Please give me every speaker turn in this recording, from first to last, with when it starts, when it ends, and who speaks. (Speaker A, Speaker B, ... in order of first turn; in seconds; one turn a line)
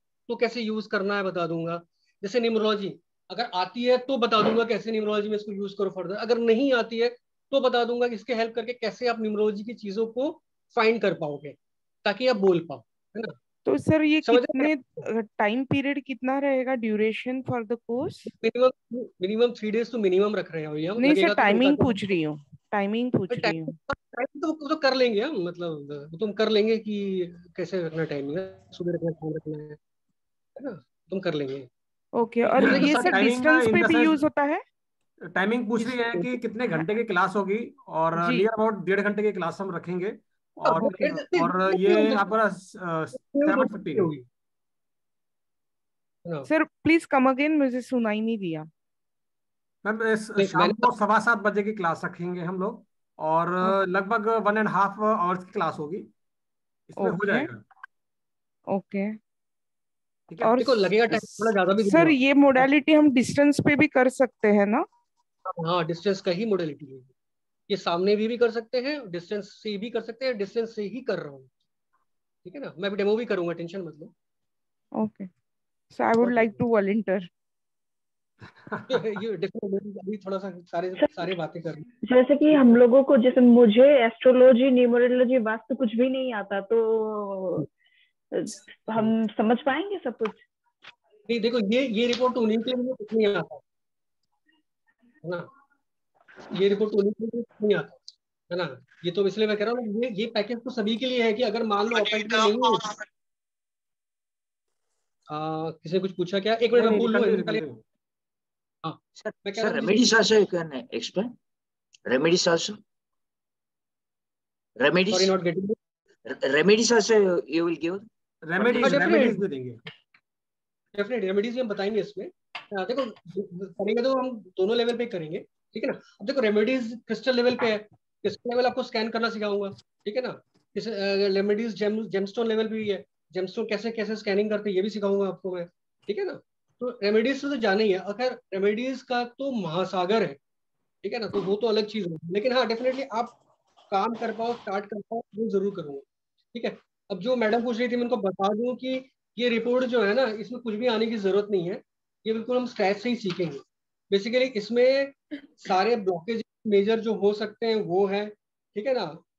Speaker A: 0.3-13.3
Speaker B: 13.7-18.3
Speaker A: 14.2-15.0
Speaker A: 18.3-21.9
Speaker B: 21.0-23.8
Speaker A: 23.3-29.8
Speaker A: 30.6-31.7
Speaker B: 32.2-34.6
Speaker A: 32.5-33.2
Speaker C: 32.6-34.1
Speaker C: 35.2-44.1
Speaker B: 38.2-38.5
Speaker A: 40.6-42.3
Speaker A: 43.1-44.2
Speaker B: 46.5-48.7
Speaker C: 49.8-56.1
Speaker A: 50.4-50.9
Speaker C: 56.9-57.6
Speaker B: 57.0-57.5
Speaker B: 58.7-59.1
Speaker B: 60.4-64.8
Speaker A: 60.6-62.7
Speaker A: 65.5-67.1
Speaker A: 67.7-71.5
Speaker A: 72.4-74.1
Speaker B: 75.0-75.3
Speaker B: 75.9-77.3
Speaker A: 76.2-76.6
Speaker C: 78.7-79.0
Speaker A: 78.9-81.8
Speaker D: 82.0-87.7
Speaker D: 88.3-90.4
Speaker A: 91.3-93.6
Speaker A: 96.5-98.0
Speaker A: 98.5-102.9
Speaker A: 105.3-107.7
Speaker C: 106.7-107.8
Speaker A: 108.8-110.0
Speaker E: 109.2-111.3
Speaker E: 112.1-112.8
Speaker E: 114.8-115.3
Speaker A: 115.1-115.8
Speaker E: 116.2-118.0
Speaker C: 118.4-119.8
Speaker A: 118.7-119.4
Speaker A: 120.9-140.4
Speaker A: 141.0-143.3
Speaker A: 143.9-159.2